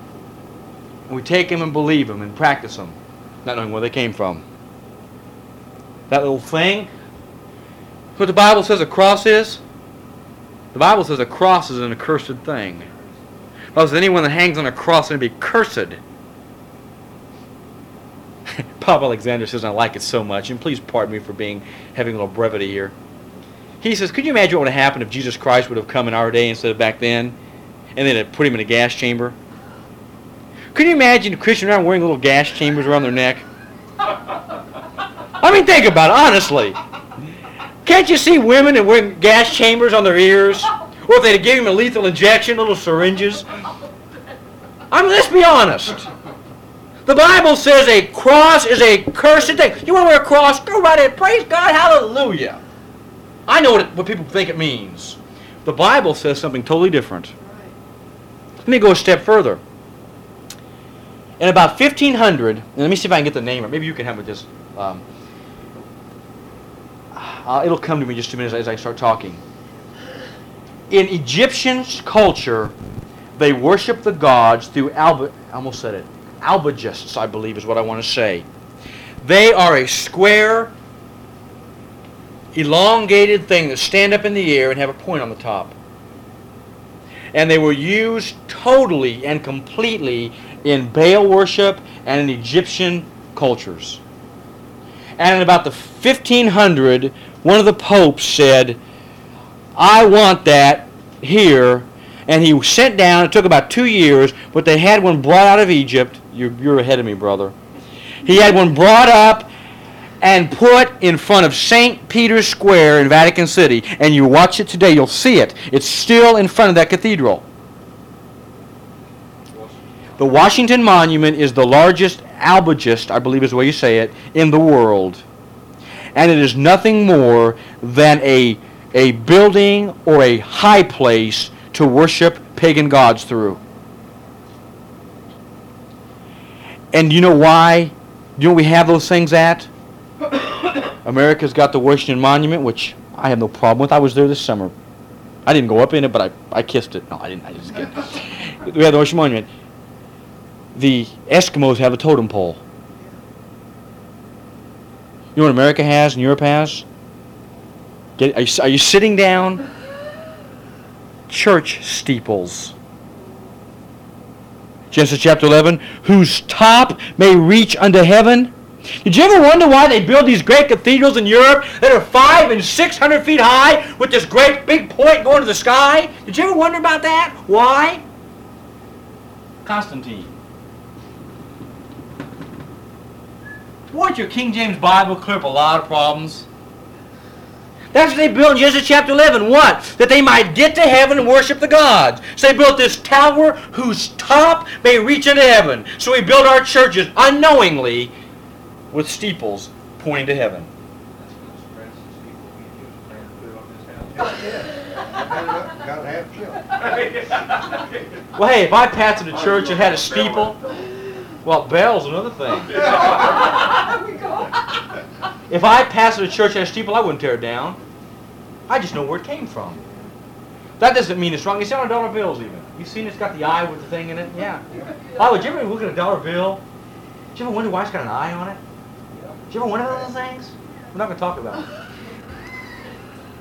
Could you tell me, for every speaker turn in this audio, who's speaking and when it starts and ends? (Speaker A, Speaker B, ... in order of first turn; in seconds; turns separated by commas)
Speaker A: 1.1-4.4, Speaker A: 6.1-6.9, Speaker A: 8.2-9.6, Speaker A: 10.7-12.9, Speaker A: 13.7-16.0, Speaker A: 18.5-22.9, Speaker A: 23.8-27.3, Speaker A: 27.9-29.4, Speaker A: 30.7-33.4, Speaker A: 35.4-36.8, Speaker A: 37.8-43.4, Speaker A: 44.9-46.1, Speaker A: 47.0-52.6, Speaker A: 53.5-57.3, Speaker A: 58.6-59.6, Speaker A: 61.4-65.0, Speaker A: 67.1-69.4, Speaker A: 70.9-72.7, Speaker A: 73.4-78.5, Speaker A: 79.2-80.7, Speaker A: 82.5-85.7, Speaker A: 87.3-94.0, Speaker A: 95.2-98.8, Speaker A: 99.8-107.5, Speaker A: 108.2-109.5, Speaker A: 110.2-117.4, Speaker B: 119.5-119.8, Speaker A: 120.2-125.2, Speaker A: 126.1-133.6, Speaker A: 136.9-139.7, Speaker A: 141.0-144.7, Speaker A: 145.4-149.5, Speaker A: 150.7-152.6, Speaker A: 155.3-156.8, Speaker A: 158.2-159.6, Speaker A: 161.3-162.7, Speaker A: 164.9-178.0, Speaker A: 179.6-180.3, Speaker A: 183.9-186.5, Speaker A: 187.9-198.1, Speaker A: 198.9-200.7, Speaker B: 201.2-204.7, Speaker B: 205.3-205.7, Speaker B: 206.5-208.2, Speaker A: 208.3-210.6, Speaker B: 209.3-210.6, Speaker A: 211.4-213.1, Speaker B: 212.8-213.4, Speaker A: 215.5-217.8, Speaker A: 218.7-219.8, Speaker A: 220.8-226.6, Speaker A: 227.3-228.6, Speaker A: 229.5-231.7